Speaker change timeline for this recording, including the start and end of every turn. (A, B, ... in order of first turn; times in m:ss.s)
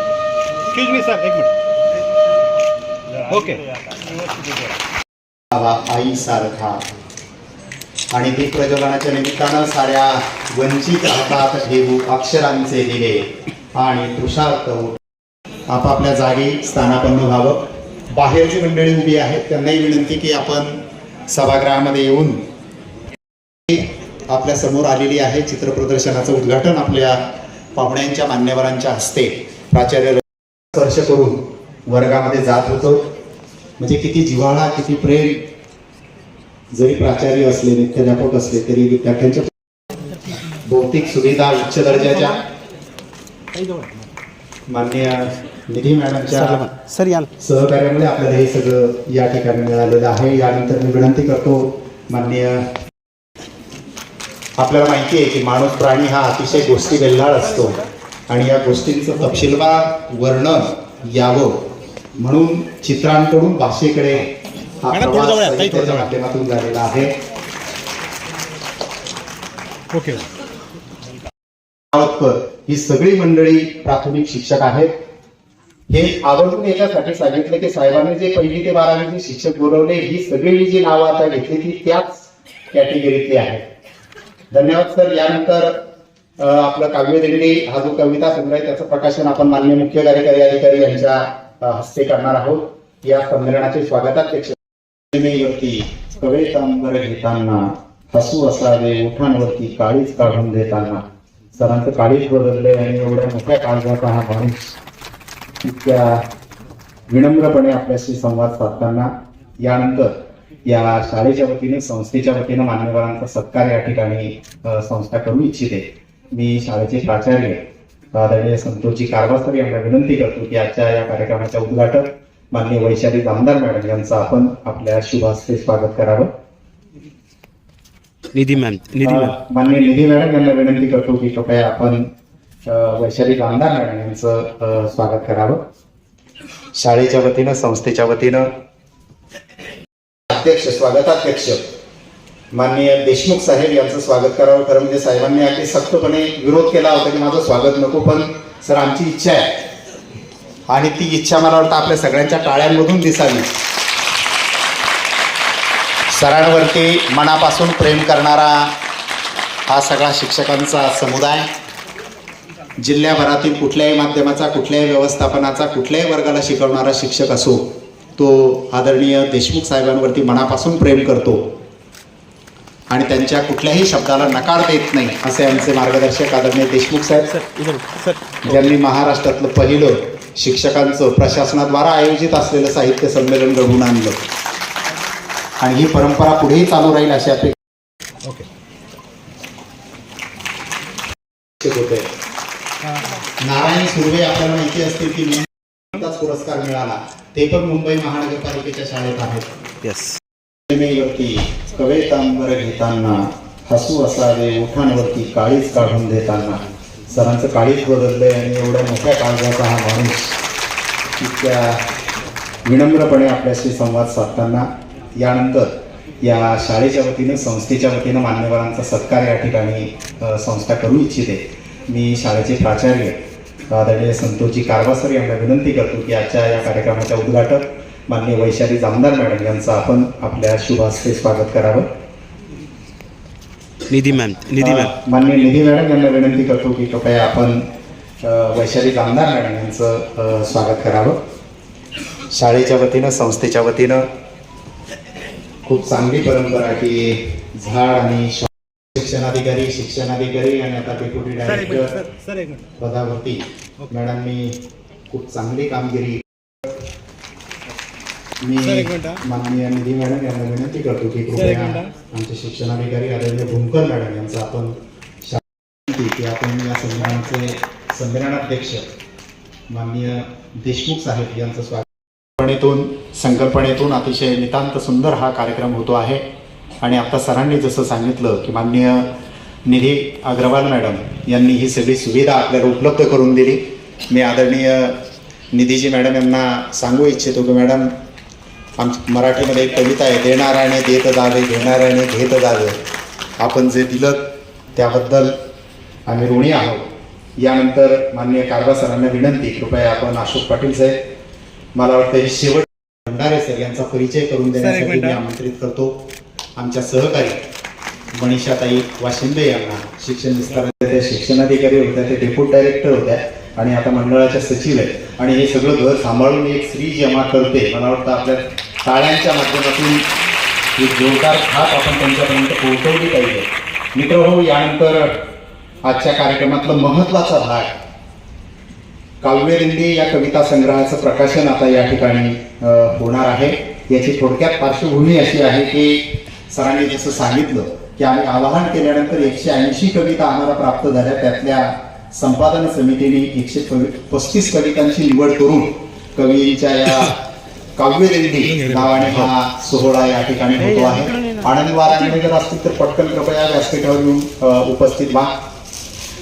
0:00.7-0:01.5 A
0:03.2-0:04.7 A
0:05.5-0:06.8 B
0:08.1-0:15.0 B
0:15.7-0:22.4 B
0:23.7-0:27.2 B
0:27.8-0:33.1 B
0:33.8-0:35.5 B
0:36.7-0:39.5 B
0:40.6-0:42.5 B
0:44.7-0:46.7 B
0:46.3-0:47.3 C
0:47.4-0:52.7 B
0:54.6-1:01.5 B
1:02.2-1:07.2 B
1:04.9-1:06.1 A
1:09.9-1:10.2 A
1:11.9-1:14.9 B
1:15.9-1:23.6 B
1:24.5-1:25.8 B
1:26.4-1:34.6 B
1:35.1-1:41.0 B
1:41.6-1:44.7 B
1:45.6-1:46.3 B
1:47.1-1:50.1 B
1:50.7-1:57.6 B
1:58.1-2:06.3 B
2:08.3-2:09.3 C
2:09.0-2:12.1 B
2:12.7-2:15.6 B
2:16.7-2:18.5 B
2:20.3-2:21.6 B
2:22.5-2:29.5 B
2:30.7-2:33.6 B
2:36.1-2:38.8 B
2:39.7-2:41.5 B
2:42.8-2:51.5 B
2:52.9-2:57.4 B
2:57.3-2:58.2 C
2:58.4-3:04.2 B
3:05.6-3:07.6 B
3:11.6-3:12.1 B
3:13.4-3:19.5 B
3:19.8-3:20.2 C
3:20.7-3:30.3 B
3:31.2-3:31.8 B
3:32.7-3:43.2 B
3:43.7-3:51.9 B
3:53.9-3:54.9 C
3:54.6-3:57.7 B
3:58.2-4:01.2 B
4:02.3-4:04.1 B
4:05.7-4:12.0 B
4:11.5-4:12.7 A
4:12.8-4:16.2 B
4:18.4-4:28.9 B
4:18.6-4:19.2 A
4:21.4-4:21.9 A
4:29.7-4:36.2 B
4:36.8-4:39.2 B
4:39.7-4:45.0 B
4:45.5-4:47.9 B
4:48.8-4:52.8 B
4:53.4-4:55.4 B
4:56.1-4:56.9 B
4:57.4-5:01.0 B
5:01.8-5:06.0 B
5:04.6-5:05.2 A
5:06.6-5:07.4 B
5:08.1-5:20.1 B
5:20.8-5:25.2 B
5:25.8-5:27.7 B
5:29.2-5:47.2 B
5:47.8-5:55.3 B
5:50.6-5:51.5 C